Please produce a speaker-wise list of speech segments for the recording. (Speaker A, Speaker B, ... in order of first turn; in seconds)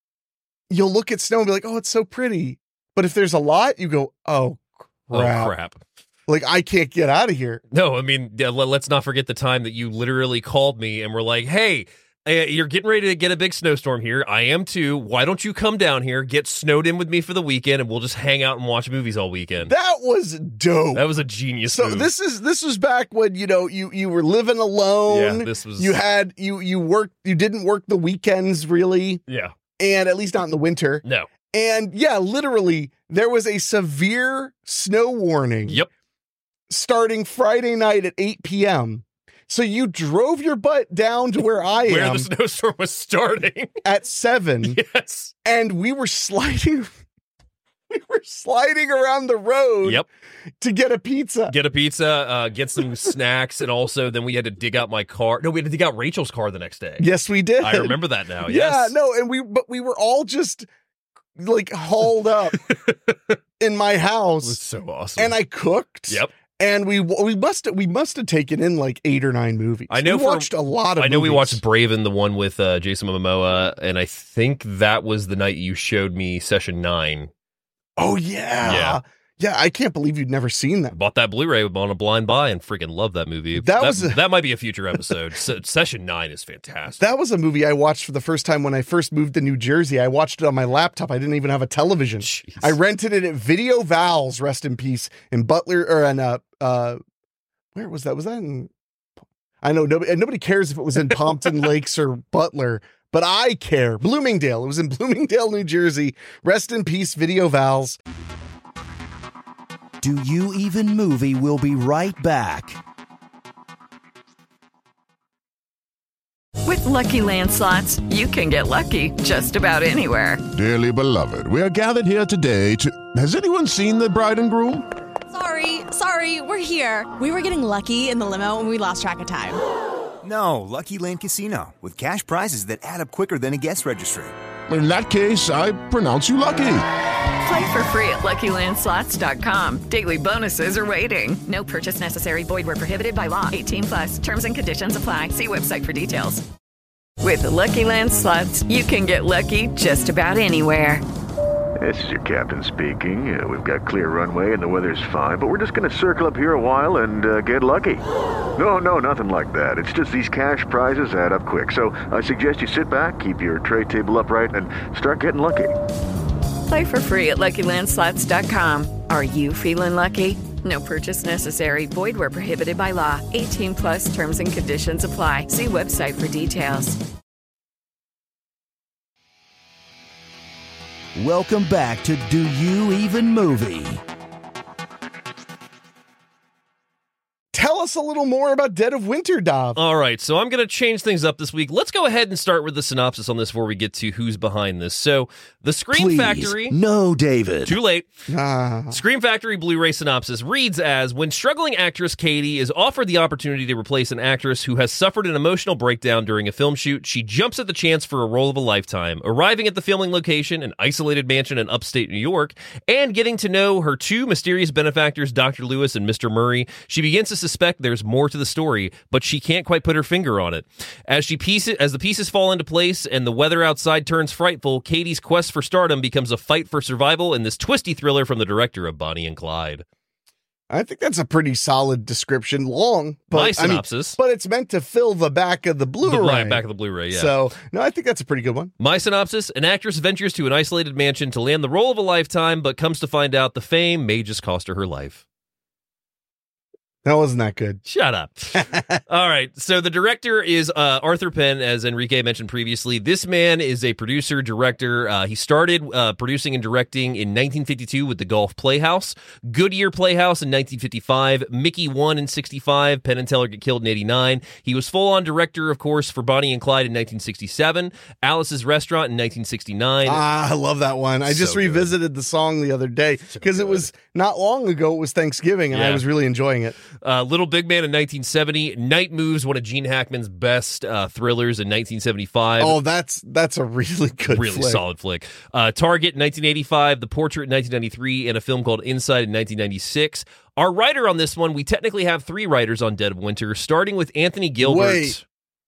Speaker A: 0.7-5.5, 6.3-7.6, 19.6-21.0, 21.7-29.2, 29.8-35.8, 36.7-42.3, 43.8-44.8, 45.4-46.9, 47.9-50.0, 50.6-51.5, 57.0-60.7, 61.4-62.6, 63.6-64.6, 65.2-71.6, 78.0-81.0, 83.5-84.2, 87.0-97.0, 97.7-98.7, 99.6-108.0, 187.5-189.8, 198.3-199.0, 230.7-238.7, 247.0-247.8, 248.5-249.0, 270.0-276.8, 282.6-284.8, 294.6-295.2
Speaker B: 5.1-5.8, 7.7-19.7, 20.9-22.1, 25.1-26.0, 29.3-29.5, 41.9-43.7, 44.6-45.3, 51.5-57.1, 57.6-59.0, 62.6-63.4, 64.4-65.3, 69.9-77.3, 78.6-79.0, 80.9-87.0, 92.2-92.7, 189.8-196.7, 197.6-198.1, 198.9-229.8, 233.3-234.2, 236.0-237.3, 238.8-245.2, 247.8-270.2, 271.2-271.9, 273.3-273.9, 275.7-276.0, 277.0-282.8, 284.3-295.2
Speaker C: 110.0-112.8, 181.1-184.0, 195.9-197.8
Speaker D: 116.6-120.4, 137.4-146.4, 147.2-151.0, 166.7-177.0
Speaker E: 120.5-124.8, 134.7-136.8
Speaker F: 125.3-129.6
Speaker G: 130.2-134.3
Speaker H: 151.8-158.0, 158.6-165.7